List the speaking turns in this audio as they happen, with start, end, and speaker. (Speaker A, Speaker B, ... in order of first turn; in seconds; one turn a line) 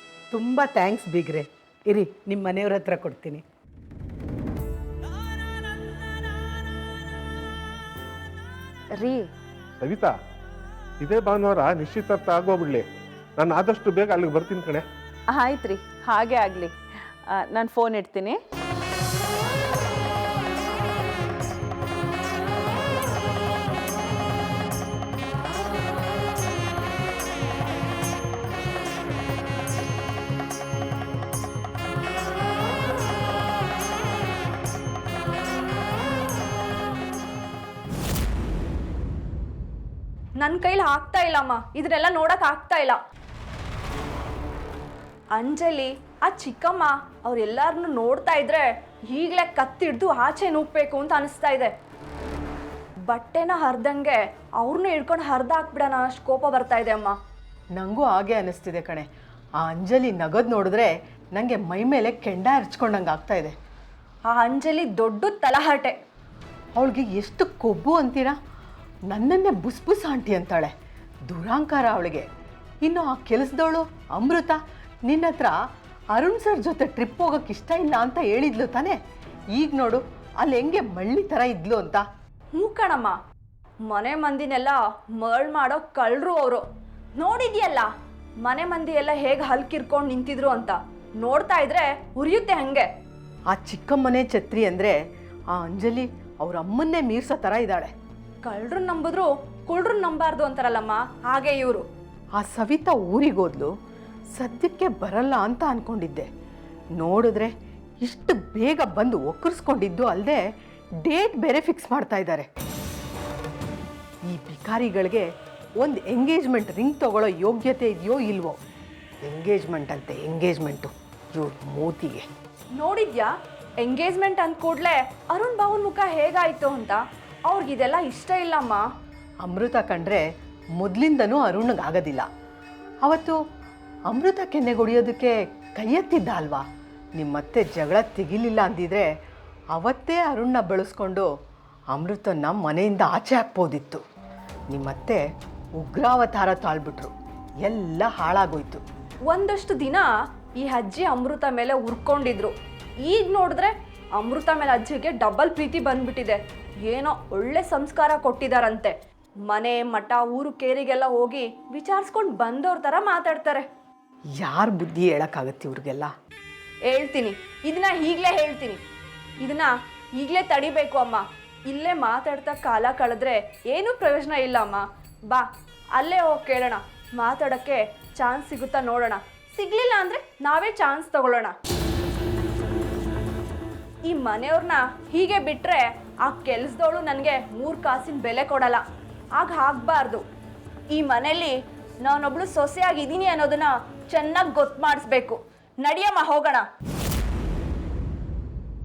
Speaker A: 0.3-3.4
Speaker B: 8.9-9.3
Speaker C: 9.8-10.1
Speaker C: 11.0-12.8
Speaker C: 13.4-14.8
Speaker B: 15.3-16.7
Speaker B: 17.3-18.4
Speaker D: 40.4-43.0
Speaker D: 45.3-51.7
Speaker D: 53.0-57.1
Speaker E: 57.7-59.1
Speaker E: 59.6-63.5
Speaker D: 64.3-66.0
Speaker E: 66.7-68.3
Speaker E: 69.1-70.7
Speaker E: 71.3-72.2
Speaker E: 72.8-75.5
Speaker E: 76.1-79.0
Speaker E: 79.5-82.0
Speaker D: 82.5-83.2
Speaker D: 83.9-86.6
Speaker D: 87.2-87.9
Speaker D: 88.4-92.8
Speaker E: 93.5-95.0
Speaker E: 95.5-97.9
Speaker D: 98.4-101.8
Speaker E: 102.3-103.7
Speaker E: 104.3-106.3
Speaker E: 107.0-110.4
Speaker E: 111.0-112.5
Speaker E: 114.2-115.3
Speaker E: 115.8-118.5
Speaker E: 119.2-122.2
Speaker D: 122.8-123.3
Speaker D: 123.8-128.8
Speaker E: 129.4-130.2
Speaker E: 130.8-132.3
Speaker E: 133.0-133.4
Speaker E: 134.1-136.6
Speaker E: 137.2-139.1
Speaker E: 139.7-141.3
Speaker E: 141.9-144.0
Speaker E: 144.7-145.2
Speaker E: 145.8-147.1
Speaker E: 147.6-148.8
Speaker D: 149.3-150.1
Speaker D: 150.6-152.5
Speaker D: 153.0-158.9
Speaker D: 159.5-163.6
Speaker E: 164.4-166.1
Speaker D: 166.9-168.8
Speaker D: 169.4-175.4
Speaker D: 176.0-181.5
Speaker D: 184.1-188.8
Speaker D: 189.4-190.2
Speaker D: 190.9-196.6